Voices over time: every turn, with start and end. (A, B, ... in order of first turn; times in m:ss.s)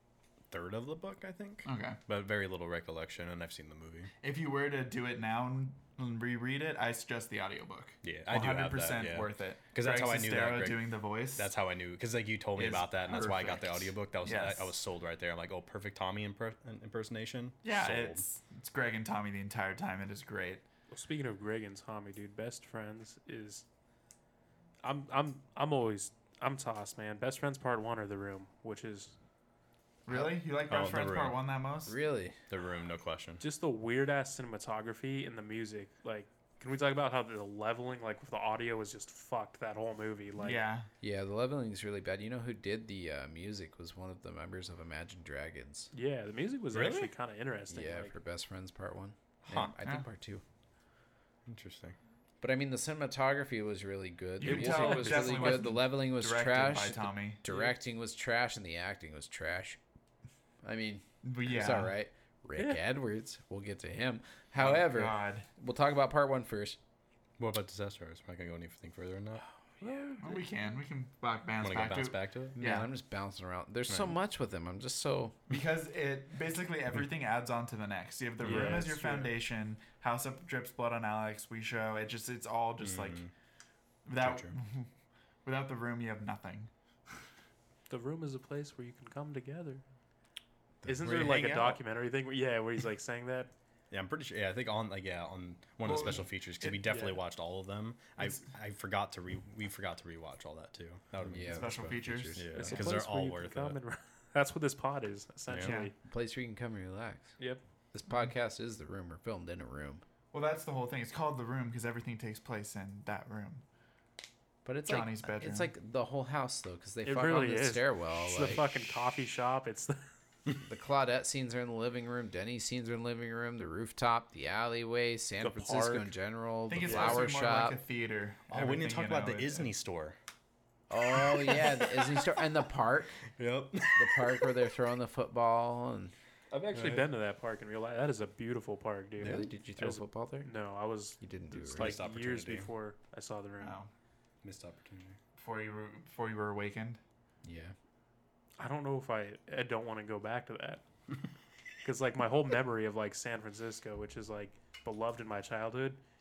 0:00.5-0:04.1 A
0:01.6-0:02.0 B
0:04.2-0:11.5 B
0:08.0-0:10.8 A
0:11.4-0:18.2 A
0:12.6-0:14.7 B
0:17.6-0:20.6 B
0:20.9-0:23.6 C
0:24.8-0:29.1 C
0:30.1-0:31.9 B
0:30.7-0:31.4 A
0:31.8-0:32.4 D
0:32.5-0:33.4 A
0:33.4-0:40.6 C
0:40.4-0:40.9 B
0:41.0-0:45.9 D
0:45.9-0:48.1 C
0:46.7-0:47.1 A
0:47.7-0:50.4 D
0:49.4-0:49.7 A
0:49.8-0:50.0 B
0:51.5-0:52.0 A
0:52.4-0:59.8 D
0:54.4-0:57.4 B
0:54.4-0:55.7 C
0:57.4-0:57.7 C
1:00.6-1:06.8 D
1:01.2-1:01.9 B
1:02.5-1:02.8 C
1:04.6-1:05.5 B
1:07.4-1:09.4 A
1:09.8-1:10.4 C
1:10.2-1:12.9 B
1:11.6-1:12.5 A
1:12.6-1:15.4 D
1:13.9-1:14.1 A
1:15.5-1:23.2 B
1:18.4-1:19.3 C
1:18.4-1:18.9 A
1:22.8-1:23.3 A
1:24.0-1:24.9 B
1:24.2-1:24.5 A
1:25.4-1:26.7 B
1:27.9-1:29.8 C
1:30.8-1:33.5 C
1:30.9-1:31.8 A
1:33.9-1:43.8 A
1:35.8-1:36.9 B
1:36.8-1:37.2 C
1:41.3-1:42.9 D
1:41.5-1:42.6 B
1:42.5-1:45.9 C
1:45.5-1:45.7 A
1:45.6-1:45.9 B
1:46.0-1:47.4 D
1:47.9-1:50.0 D
1:50.3-1:53.6 B
1:54.6-1:58.7 D
1:54.9-1:55.7 B
1:57.0-2:00.0 C
2:00.6-2:07.8 D
2:05.4-2:06.1 C
2:06.7-2:09.7 B
2:06.9-2:07.2 C
2:08.5-2:10.2 A
2:10.9-2:13.2 D
2:11.2-2:12.3 A
2:13.4-2:14.5 A
2:14.0-2:16.1 D
2:16.5-2:23.8 C
2:16.7-2:17.1 A
2:19.2-2:19.4 A
2:19.2-2:20.5 D
2:21.2-2:22.0 D
2:21.5-2:22.7 A
2:23.6-2:23.9 B
2:24.4-2:25.2 A
2:25.4-2:27.0 B
2:27.4-2:27.7 D
2:28.6-2:30.8 C
2:31.8-2:36.0 C